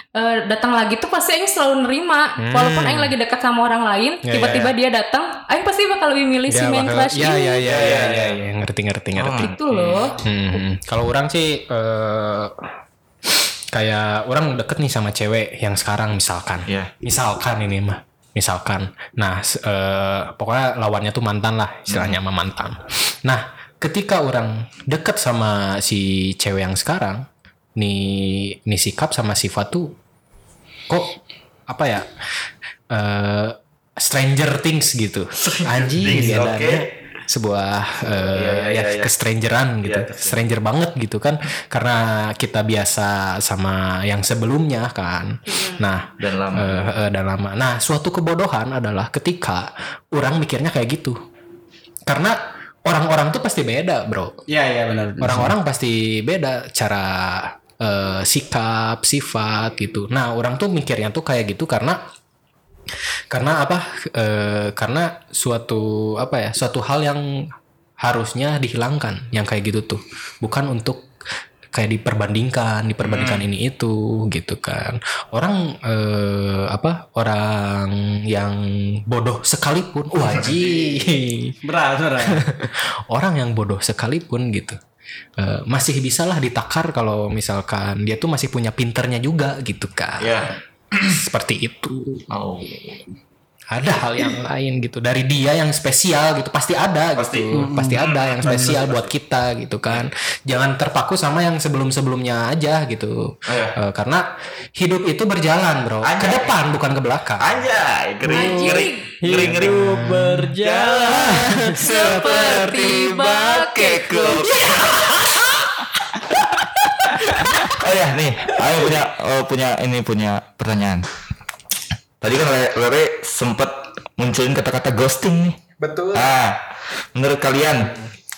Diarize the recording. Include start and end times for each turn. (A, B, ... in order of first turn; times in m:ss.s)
0:00.2-0:07.7 A
0:02.4-0:03.1 B
0:04.2-0:04.7 B
0:06.5-0:09.6 B
0:07.6-0:08.4 C
0:09.2-0:10.1 C
0:09.4-0:10.2 A
0:10.2-0:12.6 B
0:13.7-0:30.0 B
0:21.9-0:22.2 C
0:30.9-0:32.1 B
0:32.9-0:51.2 B
0:35.4-0:36.9 C
0:38.1-0:39.1 C
0:39.8-0:40.4 C
0:45.5-0:45.8 A
0:46.2-0:46.9 C
0:52.1-0:54.4 B
0:54.5-0:55.5 D
0:55.2-1:02.0 B
1:03.3-1:11.1 B
1:11.7-1:21.6 B
1:13.1-1:13.4 C
1:20.8-1:21.0 D
1:21.6-1:22.4 D
1:22.2-1:24.8 B
1:25.4-1:30.4 B
1:30.2-1:31.1 C
1:31.1-1:32.3 B
1:32.3-1:33.0 C
1:33.7-1:47.5 B
1:37.2-1:39.1 C
1:37.5-1:38.0 D
1:43.5-1:43.8 C
1:46.0-1:46.6 C
1:47.4-1:50.0 C
1:48.3-1:49.1 A
1:48.3-1:51.7 D
1:49.5-1:50.5 B
1:50.6-1:55.4 C
1:51.8-1:54.6 A
1:54.8-1:55.5 B
1:56.2-2:01.1 C
2:02.2-2:05.6 C
2:05.8-2:06.3 B
2:06.1-2:07.9 C